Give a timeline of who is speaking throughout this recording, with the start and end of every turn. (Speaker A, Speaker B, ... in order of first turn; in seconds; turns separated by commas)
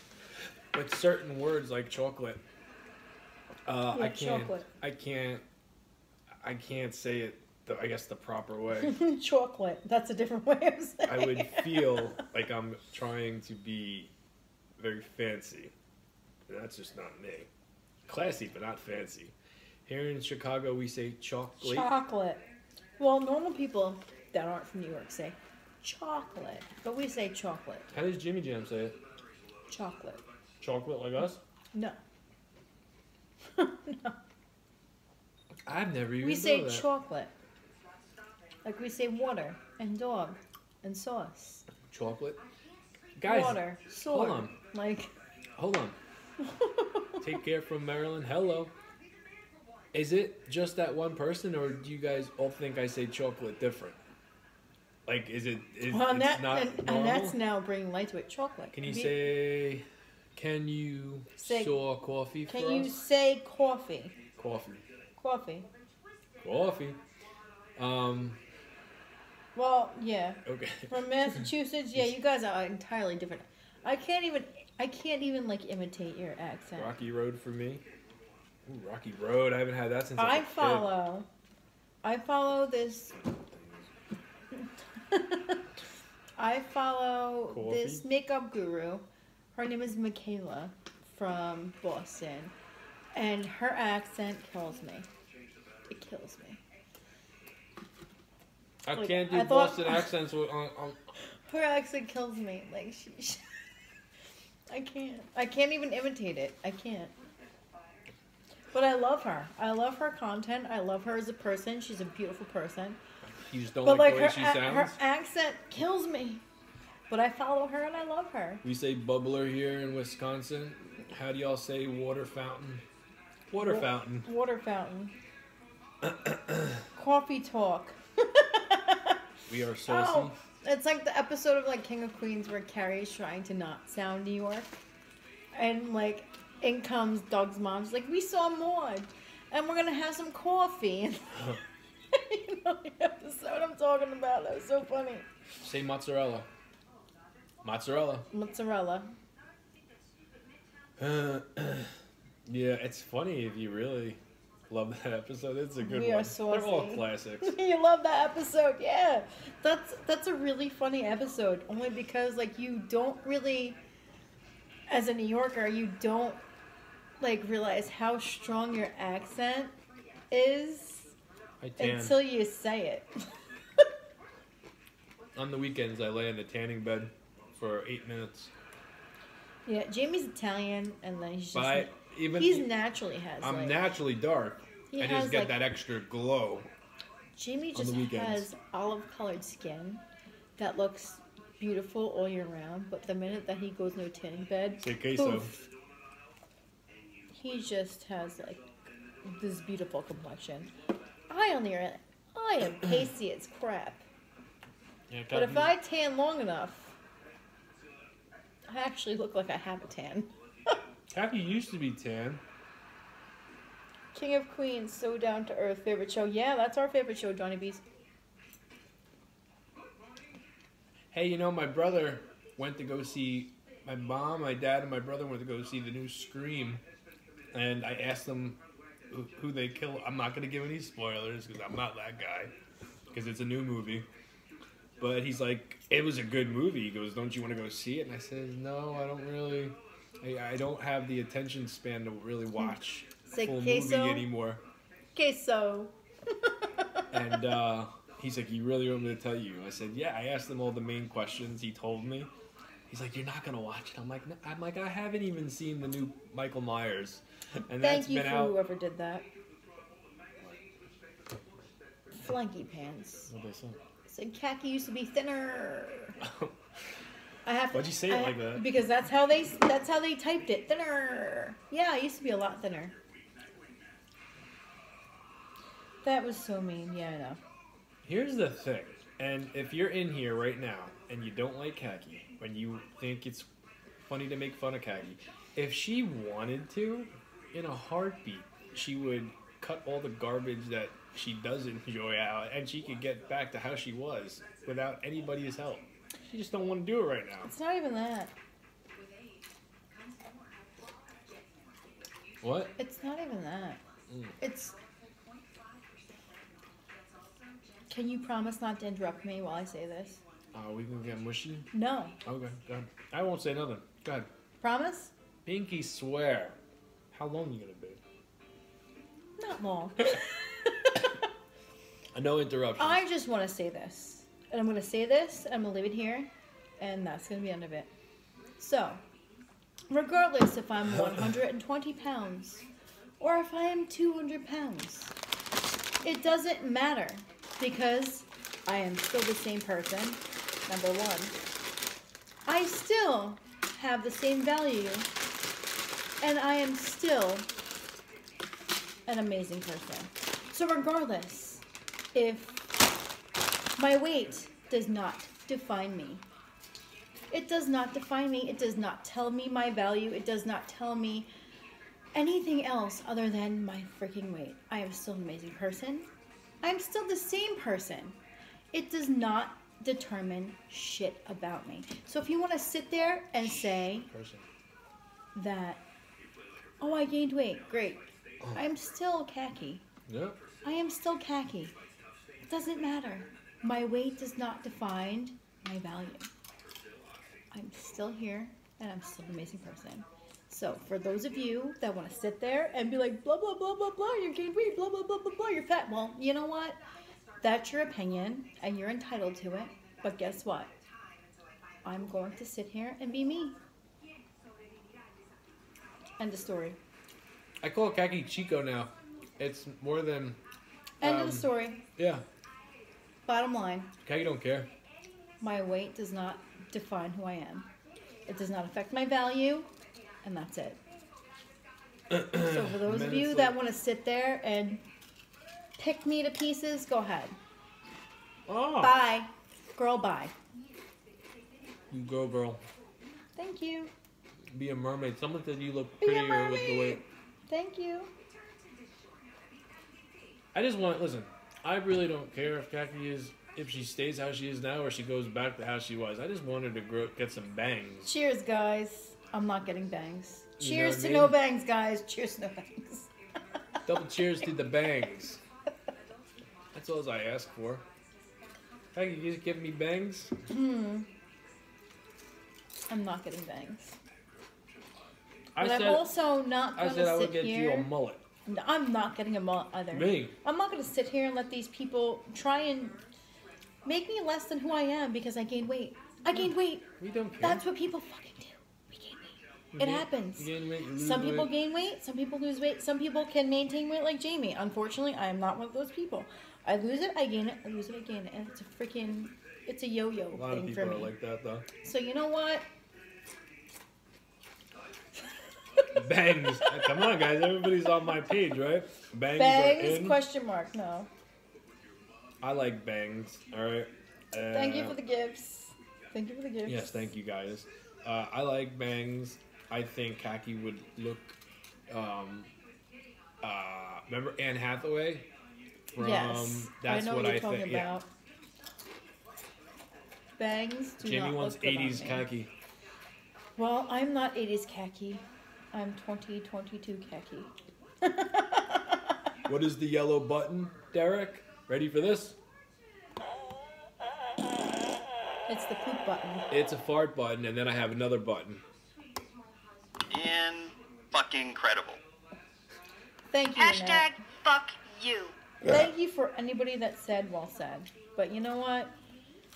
Speaker A: 0.7-2.4, Speaker A: 3.7-5.4, Speaker B: 3.9-4.7, Speaker A: 6.4-9.0, Speaker B: 8.8-12.2, Speaker A: 11.1-14.1, Speaker A: 14.8-15.7, Speaker A: 16.5-17.5, Speaker A: 18.1-19.3, Speaker A: 19.9-21.9, Speaker B: 21.6-22.5, Speaker B: 23.0-27.9, Speaker A: 27.9-29.0, Speaker B: 29.7-30.2, Speaker A: 30.6-31.4, Speaker B: 31.7-32.0, Speaker B: 33.5-34.2, Speaker A: 35.7-36.9, Speaker B: 36.2-37.3, Speaker B: 38.6-41.7, Speaker A: 41.9-42.4, Speaker A: 43.2-44.5, Speaker B: 43.2-45.1, Speaker A: 45.6-46.0, Speaker B: 46.4-47.3, Speaker A: 47.2-48.7, Speaker A: 49.9-54.0, Speaker A: 55.1-57.4, Speaker B: 55.9-59.2, Speaker A: 58.7-63.0, Speaker B: 61.4-61.8, Speaker B: 62.5-64.2, Speaker A: 64.3-64.8, Speaker B: 65.2-65.7, Speaker A: 66.4-67.0, Speaker A: 67.8-68.4, Speaker B: 69.5-77.0, Speaker A: 70.5-71.5, Speaker A: 76.7-77.8, Speaker A: 78.7-80.9, Speaker B: 80.2-81.3, Speaker B: 82.0-83.2, Speaker A: 83.2-83.9, Speaker B: 84.5-85.6, Speaker B: 86.4-92.5, Speaker A: 87.5-88.0, Speaker B: 93.1-95.1, Speaker B: 95.9-96.6, Speaker A: 98.8-101.2, Speaker B: 98.9-100.1, Speaker B: 101.2-103.7, Speaker B: 104.7-107.1, Speaker B: 108.7-113.0, Speaker A: 113.3-115.0, Speaker B: 113.8-116.4, Speaker B: 117.1-118.6, Speaker A: 118.6-122.8, Speaker A: 123.5-124.3, Speaker B: 123.6-125.2, Speaker A: 126.0-126.9, Speaker B: 127.0-129.2, Speaker A: 129.5-130.4, Speaker B: 129.9-134.8, Speaker B: 135.5-141.6, Speaker B: 142.1-145.3, Speaker A: 145.6-146.5, Speaker A: 147.6-148.3, Speaker B: 148.3-149.1, Speaker A: 151.0-157.5, Speaker B: 155.8-163.8, Speaker B: 164.9-166.4, Speaker B: 167.2-169.8, Speaker B: 170.3-171.1, Speaker A: 171.6-172.2, Speaker B: 171.8-173.2, Speaker A: 175.3-178.5, Speaker B: 179.7-183.8, Speaker A: 181.5-182.7, Speaker A: 183.4-186.7, Speaker B: 184.9-185.6, Speaker B: 187.3-190.0, Speaker A: 187.8-188.5, Speaker B: 190.6-195.7, Speaker A: 194.8-195.5, Speaker B: 197.3-198.7, Speaker B: 199.2-200.7, Speaker B: 201.3-204.1, Speaker A: 205.1-205.7, Speaker B: 205.3-207.0, Speaker B: 208.7-210.8, Speaker A: 211.1-212.4, Speaker B: 214.1-217.8, Speaker A: 221.1-226.8, Speaker A: 227.5-228.6, Speaker A: 229.1-232.5, Speaker A: 233.1-234.1, Speaker A: 235.0-244.6, Speaker B: 243.3-244.3, Speaker B: 245.2-247.0, Speaker A: 247.1-252.3, Speaker A: 252.9-258.6, Speaker B: 257.8-259.3, Speaker B: 262.1-263.3, Speaker A: 263.3-263.8, Speaker B: 264.1-266.2, Speaker A: 266.2-266.5, Speaker B: 267.4-273.0, Speaker A: 267.7-268.7, Speaker B: 276.0-277.4, Speaker A: 278.1-283.5, Speaker A: 284.1-297.5, Speaker B: 297.4-298.3, Speaker A: 302.4-302.7, Speaker B: 302.8-303.8, Speaker A: 304.1-304.4, Speaker B: 304.4-304.8, Speaker B: 307.9-310.2, Speaker A: 310.5-311.7, Speaker B: 311.7-312.2, Speaker A: 312.2-314.3, Speaker B: 314.6-315.1, Speaker A: 315.5-316.6, Speaker A: 317.1-318.0, Speaker B: 319.4-321.1, Speaker A: 322.1-323.0, Speaker B: 322.8-327.9, Speaker B: 328.6-329.0, Speaker B: 329.9-332.7, Speaker B: 333.2-335.2, Speaker B: 336.0-341.3, Speaker B: 342.4-345.1, Speaker B: 346.2-347.5, Speaker B: 349.1-352.7, Speaker B: 353.8-356.2, Speaker B: 357.3-361.3, Speaker B: 362.1-366.1, Speaker B: 366.6-368.2, Speaker B: 368.7-374.1, Speaker A: 374.1-374.5, Speaker B: 375.3-375.8, Speaker B: 376.8-379.9, Speaker A: 380.1-380.4, Speaker B: 380.6-381.8, Speaker B: 382.5-386.3, Speaker B: 387.5-396.8, Speaker B: 397.4-400.7, Speaker B: 401.8-403.6, Speaker B: 406.2-406.8, Speaker A: 407.6-410.4, Speaker B: 411.0-411.8, Speaker A: 411.0-412.2, Speaker B: 413.2-413.9, Speaker A: 414.0-414.7, Speaker B: 415.4-417.7, Speaker B: 418.3-419.7, Speaker B: 420.2-420.8, Speaker A: 422.1-423.6, Speaker B: 422.4-424.8, Speaker B: 425.8-427.4, Speaker A: 428.5-429.0, Speaker B: 428.8-430.3, Speaker A: 431.9-432.6, Speaker B: 433.4-433.9, Speaker A: 434.5-437.0, Speaker B: 436.0-438.1, Speaker A: 440.5-448.1, Speaker B: 448.1-453.1, Speaker A: 450.6-451.4, Speaker A: 453.9-455.4, Speaker A: 456.7-457.9, Speaker A: 458.9-460.3, Speaker B: 460.5-461.1, Speaker B: 462.9-464.0, Speaker A: 465.6-466.1, Speaker B: 465.6-467.9, Speaker A: 466.8-468.2, Speaker B: 468.4-473.0, Speaker A: 469.9-470.4, Speaker B: 473.8-491.1, Speaker A: 477.0-477.6, Speaker A: 479.7-481.6, Speaker A: 490.3-491.7, Speaker B: 491.8-492.7, Speaker A: 495.9-500.2, Speaker B: 496.6-496.9, Speaker B: 499.4-501.1, Speaker A: 502.4-505.0, Speaker B: 504.5-507.1, Speaker A: 506.7-511.4, Speaker A: 511.9-512.5, Speaker A: 513.4-515.3, Speaker A: 515.9-517.9, Speaker B: 516.0-518.1, Speaker B: 520.4-522.3, Speaker A: 521.0-522.5, Speaker B: 523.6-529.1, Speaker A: 529.5-532.4, Speaker B: 535.5-536.5, Speaker A: 536.5-538.6, Speaker C: 540.1-542.0, Speaker B: 543.3-544.2, Speaker C: 543.8-545.3, Speaker B: 545.6-548.9